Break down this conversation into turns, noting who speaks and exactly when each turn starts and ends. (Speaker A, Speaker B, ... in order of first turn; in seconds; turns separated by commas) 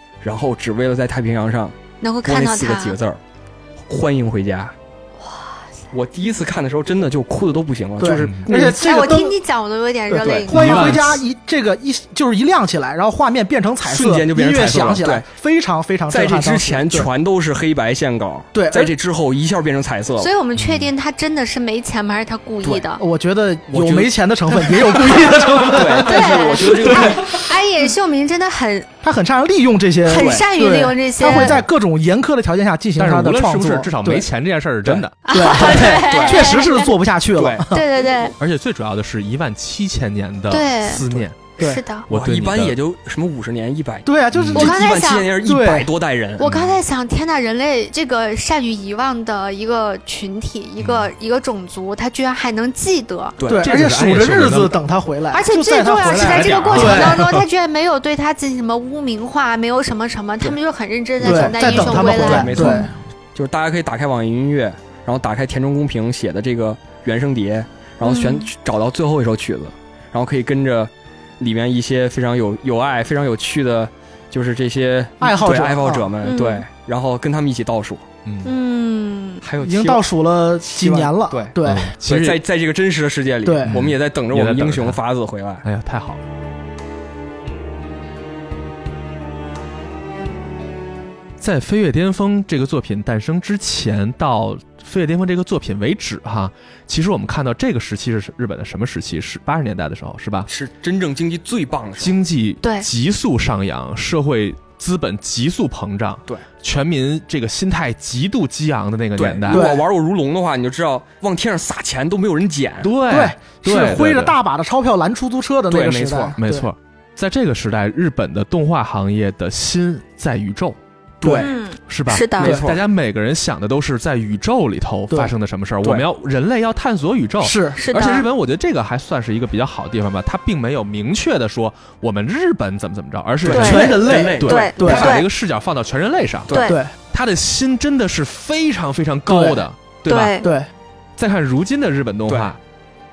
Speaker A: 0.2-3.2, Speaker B: 2.0-3.0, Speaker A: 3.9-4.7, Speaker B: 5.2-5.5, Speaker A: 5.9-8.8, Speaker C: 8.0-9.3, Speaker D: 8.2-8.4, Speaker B: 8.5-11.1, Speaker C: 10.1-17.1, Speaker A: 10.2-10.5, Speaker D: 10.5-11.2, Speaker A: 13.8-15.2, Speaker A: 16.1-20.3, Speaker C: 18.5-18.9, Speaker B: 20.2-23.0, Speaker D: 20.6-20.9, Speaker C: 23.0-27.4, Speaker A: 23.7-27.4, Speaker B: 26.0-28.9, Speaker C: 29.0-34.2, Speaker B: 30.1-31.6, Speaker A: 30.1-30.4, Speaker D: 33.0-35.1, Speaker B: 35.2-36.9, Speaker C: 35.3-37.8, Speaker A: 35.7-36.6, Speaker A: 37.3-37.6, Speaker B: 37.7-38.3, Speaker D: 38.4-41.5, Speaker B: 40.5-42.1, Speaker D: 42.1-42.8, Speaker A: 42.1-46.4, Speaker C: 44.0-44.8, Speaker D: 44.3-44.7, Speaker B: 44.5-45.3, Speaker C: 45.4-45.9, Speaker B: 46.4-53.4, Speaker D: 46.4-46.8, Speaker D: 50.8-51.1, Speaker A: 53.4-53.7, Speaker C: 53.5-57.3, Speaker D: 53.6-54.8, Speaker B: 55.3-62.8, Speaker D: 56.1-57.5, Speaker A: 61.2-78.1, Speaker C: 61.2-62.9, Speaker B: 68.0-68.5, Speaker C: 75.2-76.1, Speaker B: 76.2-76.6, Speaker D: 78.2-78.5, Speaker B: 78.4-79.4, Speaker A: 79.4-80.1, Speaker C: 79.6-81.9, Speaker A: 80.6-85.6, Speaker D: 81.6-82.4, Speaker C: 83.4-83.8, Speaker D: 83.7-85.0, Speaker D: 85.6-86.2, Speaker D: 91.4-100.5, Speaker A: 100.5-102.2, Speaker D: 102.0-109.7, Speaker B: 102.6-102.9, Speaker A: 109.2-112.9, Speaker C: 109.5-109.8, Speaker D: 112.8-114.3, Speaker C: 113.1-116.7, Speaker A: 115.7-116.4, Speaker D: 116.4-120.8, Speaker C: 121.2-121.5, Speaker A: 121.2-121.5, Speaker B: 121.4-122.6, Speaker D: 121.9-136.6, Speaker A: 122.4-122.8, Speaker C: 127.4-127.8, Speaker B: 127.8-128.3, Speaker A: 133.4-135.2, Speaker B: 133.4-135.3, Speaker C: 133.5-135.1, Speaker A: 136.5-136.7, Speaker B: 136.5-136.8, Speaker C: 136.6-136.9, Speaker D: 137.1-140.3, Speaker C: 139.3-139.6, Speaker B: 140.1-140.5, Speaker C: 140.4-140.7, Speaker D: 141.2-142.6, Speaker A: 142.3-142.5